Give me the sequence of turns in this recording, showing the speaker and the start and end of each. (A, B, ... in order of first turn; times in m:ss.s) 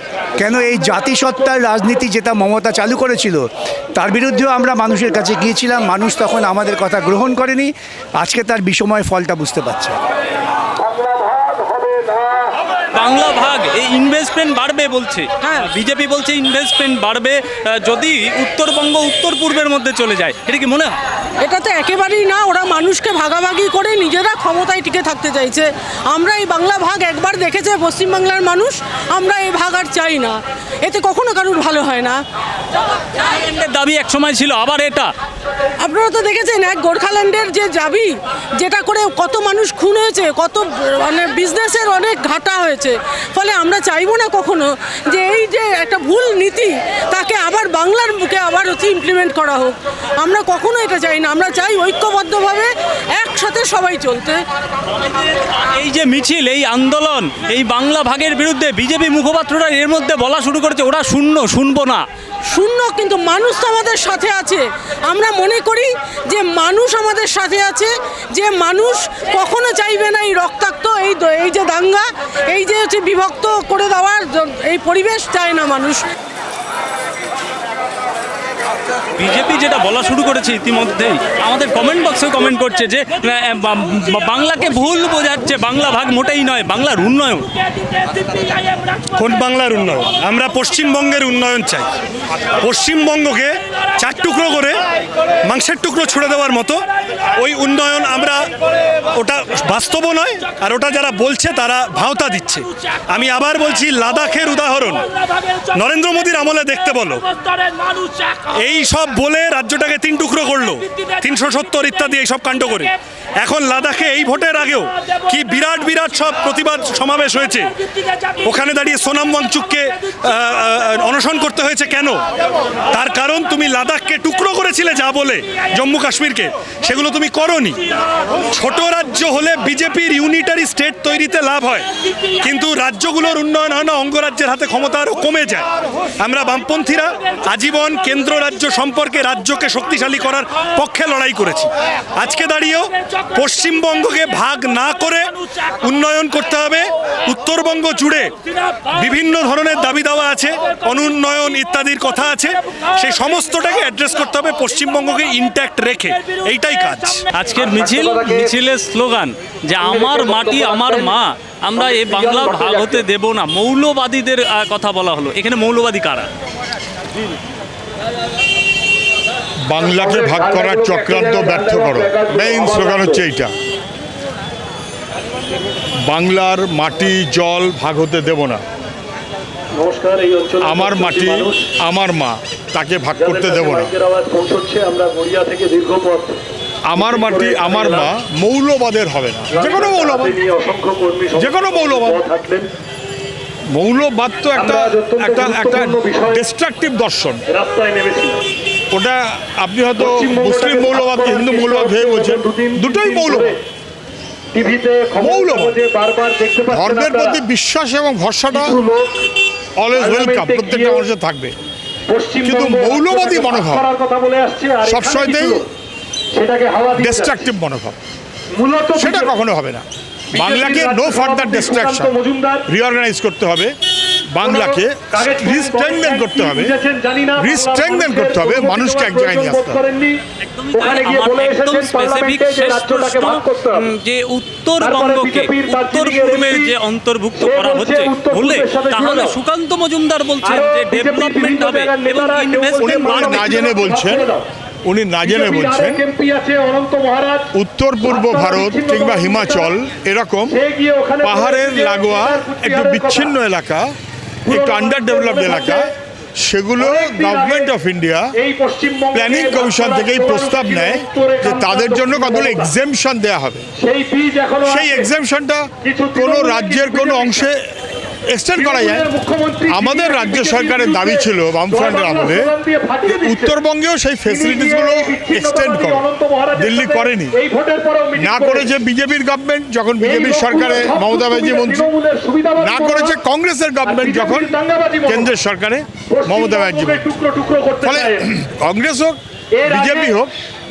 0:00.4-0:03.4 A
0:04.0-0:10.0 A
0:12.9-0:20.9 B
0:21.4-0:32.2 C
0:33.2-0:35.1 B
0:35.8-0:54.4 C
0:54.9-1:02.0 B
1:02.5-1:16.0 C
1:19.2-1:27.5 B
1:29.1-1:31.9 D
1:32.6-1:34.8 D
1:35.4-1:38.5 D
1:39.1-1:45.1 D
1:45.6-1:47.6 D
1:48.4-1:57.8 D
1:58.3-2:02.2 D
2:02.9-2:07.8 D
2:08.5-2:15.7 D
2:16.2-2:28.3 D
2:28.8-2:37.3 D
2:37.3-2:46.3 B
2:42.2-2:42.8 E
2:49.7-2:53.5 F
2:50.0-2:53.2 E
2:56.1-2:56.7 D
2:56.2-2:58.6 F
2:57.3-2:58.3 D
2:59.7-3:01.7 E
3:00.6-3:03.9 F
3:03.1-3:06.4 E
3:06.9-3:08.8 F
3:06.9-3:08.1 E
3:08.4-3:09.5 D
3:09.3-3:10.4 F
3:09.5-3:12.7 E
3:11.5-3:12.1 F
3:13.7-3:14.6 D
3:14.4-3:16.0 F
3:14.5-3:16.4 E
3:16.5-3:17.2 D
3:17.1-3:17.4 F
3:17.5-3:18.4 E
3:19.7-3:23.5 F
3:20.0-3:23.6 E
3:24.5-3:27.4 E
3:25.2-3:25.7 F
3:26.7-3:28.8 F
3:28.5-3:29.1 E
3:29.8-3:31.5 F
3:29.9-3:31.1 E
3:32.1-3:35.6 E
3:32.4-3:33.8 F
3:34.8-3:35.6 F
3:36.3-3:37.5 E
3:37.0-3:38.0 F
3:38.6-3:39.4 E
3:39.0-3:39.8 F
3:40.3-3:42.6 E
3:40.4-3:42.1 F
3:42.8-3:43.7 F
3:42.9-3:43.4 D
3:44.4-3:46.8 F
3:44.4-3:50.2 E
3:47.4-3:49.8 F
3:50.4-4:03.6 B
3:50.7-3:53.8 E
3:54.8-3:56.7 E
3:57.4-3:59.4 E
4:00.4-4:04.4 E
4:02.8-4:04.2 F
4:04.9-4:06.0 F
4:05.2-4:07.5 E
4:07.7-4:10.5 F
4:08.0-4:09.7 E
4:10.5-4:13.4 E
4:11.2-4:13.8 F
4:14.4-4:15.8 E
4:14.5-4:15.8 F
4:16.5-4:18.3 F
4:16.8-4:17.7 E
4:18.4-4:22.7 E
4:19.1-4:23.6 F
4:22.8-4:23.5 D
4:23.8-4:25.1 E
4:24.7-4:27.5 F
4:25.8-4:27.5 E
4:28.4-4:29.1 F
4:28.5-4:33.6 E
4:29.7-4:32.5 F
4:33.1-4:36.0 F
4:34.2-4:38.7 E
4:36.6-4:37.3 F
4:38.2-4:41.9 F
4:38.8-4:39.7 D
4:40.0-4:43.2 E
4:42.6-4:44.5 F
4:43.8-4:45.3 E
4:45.1-4:47.1 F
4:46.0-4:48.3 E
4:47.8-4:49.1 F
4:49.6-4:50.2 E
4:49.7-4:50.3 F